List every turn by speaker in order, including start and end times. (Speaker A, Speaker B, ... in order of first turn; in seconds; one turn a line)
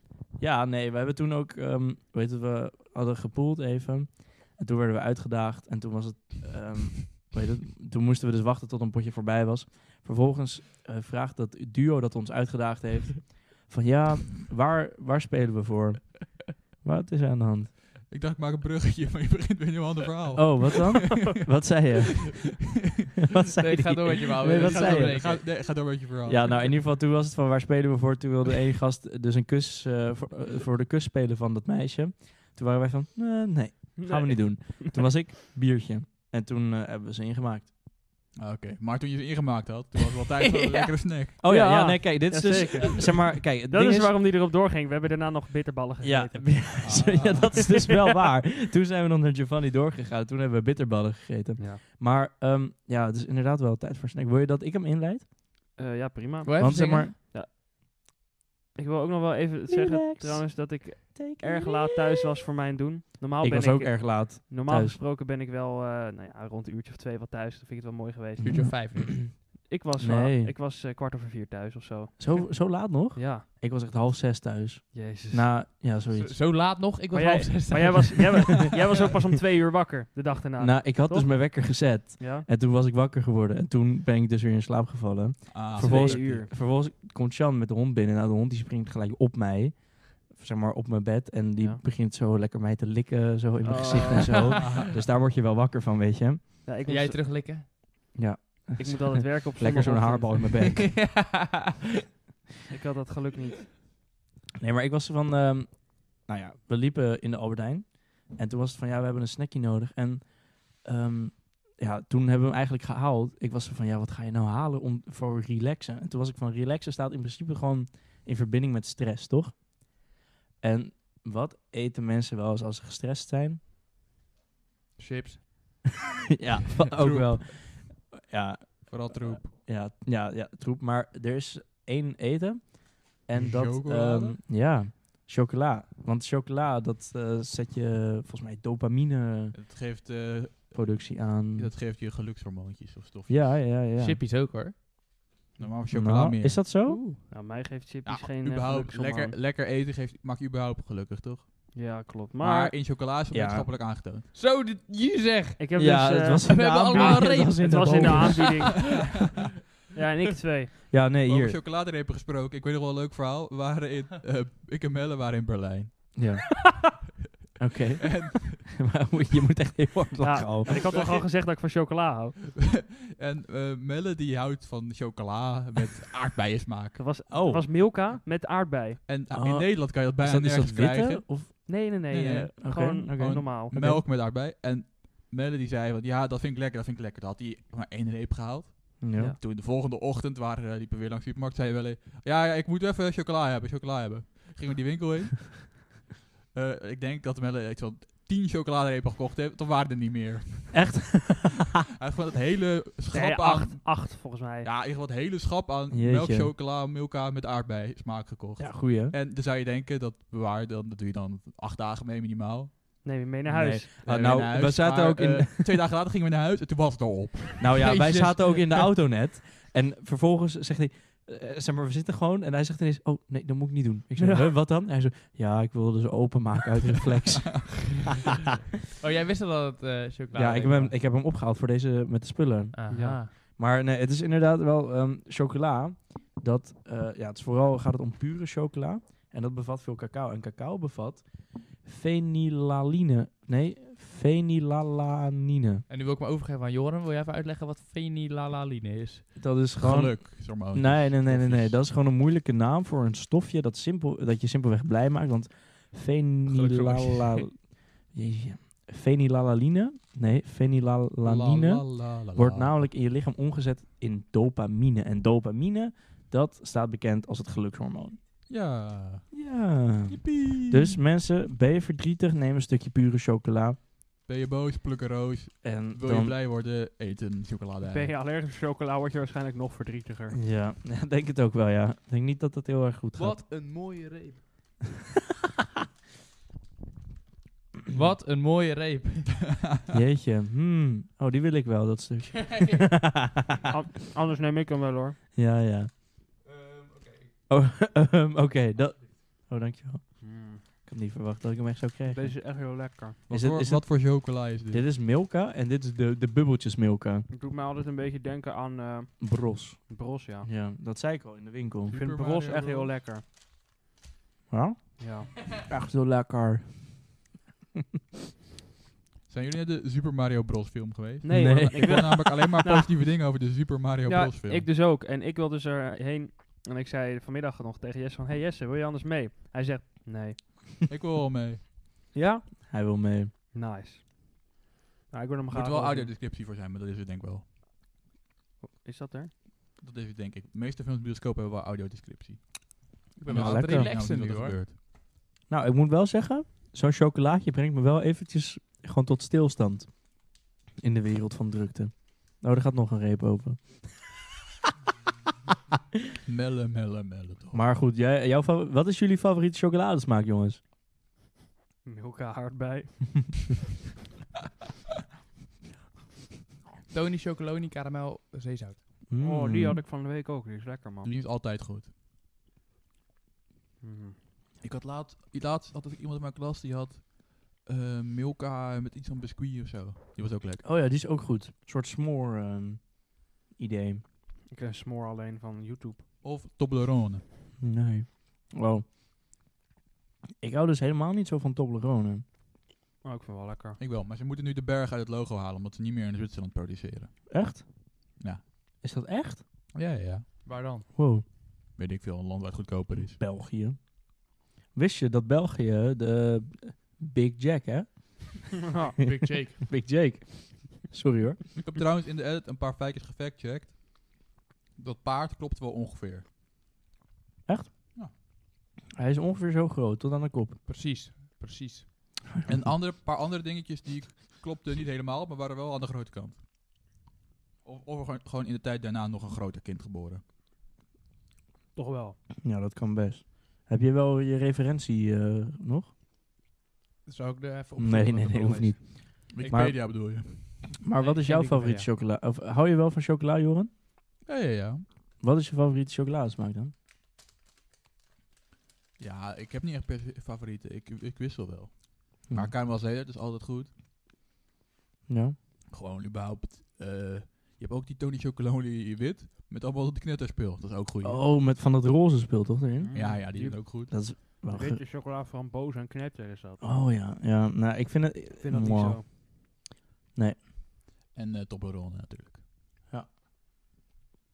Speaker A: 0.4-17.7
Speaker B: 18.1-21.3
Speaker A: 20.4-22.6
Speaker A: 23.3-25.5
Speaker C: 23.6-25.4
Speaker B: 24.6-26.7
Speaker A: 26.2-37.7
Speaker D: 34.0-35.0
Speaker B: 38.4-41.4
Speaker C: 40.5-40.9
Speaker A: 41.4-44.1
Speaker D: 41.4-47.0
Speaker A: 46.0-55.3
Speaker B: 46.8-47.7
Speaker D: 55.8-57.5
Speaker C: 56.4-57.1
Speaker A: 56.6-57.1
Speaker D: 58.8-68.8
Speaker A: 59.7-62.1
Speaker A: 63.4-65.0
Speaker A: 68.4-69.3
Speaker C: 68.4-69.3
Speaker D: 69.7-73.5
Speaker A: 70.0-70.5
Speaker A: 72.2-76.4
Speaker D: 74.9-75.5
Speaker C: 76.1-78.5
Speaker D: 77.1-82.5
Speaker A: 80.6-96.6
Speaker B: 85.5-86.3
Speaker D: 85.8-86.5
Speaker D: 93.6-94.5
Speaker C: 94.1-94.7
Speaker D: 96.7-97.2
Speaker C: 96.9-97.7
Speaker A: 98.2-101.0
Speaker D: 98.8-100.6
Speaker C: 100.7-101.6
Speaker D: 102.7-103.7
Speaker A: 104.6-120.1
Speaker A: 120.6-123.6
Speaker C: 125.0-125.8
Speaker A: 126.4-139.6
Speaker B: 127.0-127.3
Speaker B: 128.9-129.5
Speaker B: 133.4-134.4
Speaker B: 139.5-143.6
Speaker A: 140.7-141.7
Speaker A: 143.3-144.2
Speaker C: 144.0-144.8
Speaker B: 145.6-146.6
Speaker A: 145.9-147.0
Speaker C: 146.8-147.2
Speaker D: 147.3-149.4
Speaker B: 148.1-151.7
Speaker D: 151.7-152.8
Speaker B: 152.4-154.3
Speaker A: 153.3-153.7
Speaker C: 154.3-155.7
Speaker D: 155.6-159.0
Speaker A: 155.8-158.6
Speaker C: 156.5-159.2
Speaker D: 159.9-160.7
Speaker A: 160.9-161.6
Speaker B: 161.3-166.2
Speaker A: 166.2-166.4
Speaker A: 167.6-170.7
Speaker B: 168.0-168.7
Speaker D: 170.2-172.4
Speaker B: 170.9-171.3
Speaker B: 172.6-177.2
Speaker D: 177.0-179.0
Speaker A: 177.3-177.7
Speaker B: 179.1-182.5
Speaker A: 179.3-184.0
Speaker D: 181.7-183.8
Speaker B: 183.2-196.0
Speaker A: 189.0-189.4
Speaker B: 196.5-201.0
Speaker A: 200.7-201.7
Speaker B: 202.0-212.8
Speaker D: 203.1-204.7
Speaker A: 205.9-206.5
Speaker A: 208.6-209.2
Speaker D: 213.0-213.9
Speaker A: 213.5-215.8
Speaker B: 214.0-217.7
Speaker A: 217.6-228.1
Speaker C: 217.8-218.9
Speaker D: 224.2-224.4
Speaker C: 229.0-230.9
Speaker A: 230.3-245.8
Speaker C: 232.7-233.3
Speaker D: 232.9-233.2
Speaker C: 245.9-249.3
Speaker A: 249.3-268.2
Speaker B: 249.8-251.8
Speaker C: 256.5-257.4
Speaker B: 261.2-262.8
Speaker B: 268.5-269.5
Speaker A: 269.3-273.8
Speaker B: 270.1-271.0
Speaker B: 274.2-278.1
Speaker A: 275.6-276.4
Speaker D: 277.8-280.4
Speaker A: 280.3-283.4
Speaker C: 283.2-284.4
Speaker C: 287.9-289.6
Speaker A: 289.9-293.6
Speaker D: 293.7-295.2
Speaker A: 295.4-295.9
Speaker C: 296.5-297.3
Speaker A: 297.5-302.5
Speaker D: 300.2-300.6
Speaker D: 302.1-303.2
Speaker B: 303.3-304.8
Speaker A: 303.3-307.3
Speaker D: 307.3-310.5
Speaker A: 309.2-311.9
Speaker B: 311.9-312.9
Speaker D: 311.9-313.2
Speaker A: 314.5-317.2
Speaker D: 315.0-315.3
Speaker B: 319.3-324.7
Speaker D: 321.2-322.9
Speaker A: 321.3-322.1
Speaker D: 324.1-330.7
Speaker B: 330.9-331.6
Speaker D: 332.1-332.5
Speaker A: 332.4-333.3
Speaker D: 333.5-334.5
Speaker D: 335.1-336.1
Speaker B: 335.5-337.4
Speaker D: 338.6-339.3
Speaker B: 339.8-344.7
Speaker C: 343.2-344.6
Speaker A: 343.3-343.9
Speaker A: 345.5-350.2
Speaker A: 350.8-353.9
Speaker B: 356.2-357.6
Speaker A: 357.5-360.6
Speaker D: 361.9-363.4
Speaker C: 366.9-368.8
Speaker A: 369.1-369.8
Speaker D: 369.2-371.1
Speaker B: 371.0-371.9
Speaker D: 373.8-374.2
Speaker B: 374.6-380.6
Speaker A: 380.6-384.0
Speaker D: 384.5-386.0
Speaker B: 386.2-387.2
Speaker A: 387.6-388.9
Speaker A: 390.4-392.2
Speaker D: 393.0-393.8
Speaker B: 393.8-397.3
Speaker A: 397.3-397.7
Speaker A: 398.8-399.4
Speaker B: 399.7-400.3
Speaker C: 400.4-400.9
Speaker A: 400.9-401.2
Speaker B: 401.8-403.2
Speaker A: 402.9-408.6
Speaker D: 408.6-409.0
Speaker C: 409.0-409.6
Speaker A: 409.6-411.4
Speaker B: 411.6-416.2
Speaker A: 417.5-417.7
Speaker A: 418.9-420.6
Speaker C: 420.7-421.9
Speaker A: 422.4-422.7
Speaker B: 422.4-426.4
Speaker B: 427.6-430.2
Speaker D: 431.8-432.2
Speaker A: 432.4-435.9
Speaker C: 437.1-438.9
Speaker A: 437.8-443.7
Speaker B: 439.3-440.8
Speaker C: 441.0-441.8
Speaker B: 444.3-444.8
Speaker A: 445.2-446.7
Speaker B: 449.0-453.7
Speaker A: 452.3-452.5
Speaker A: 455.1-455.4
Speaker B: 455.7-461.2
Speaker A: 461.0-464.8
Speaker D: 462.8-466.7
Speaker B: 462.9-463.9
Speaker A: 466.6-469.0
Speaker D: 468.4-469.1
Speaker B: 471.1-472.4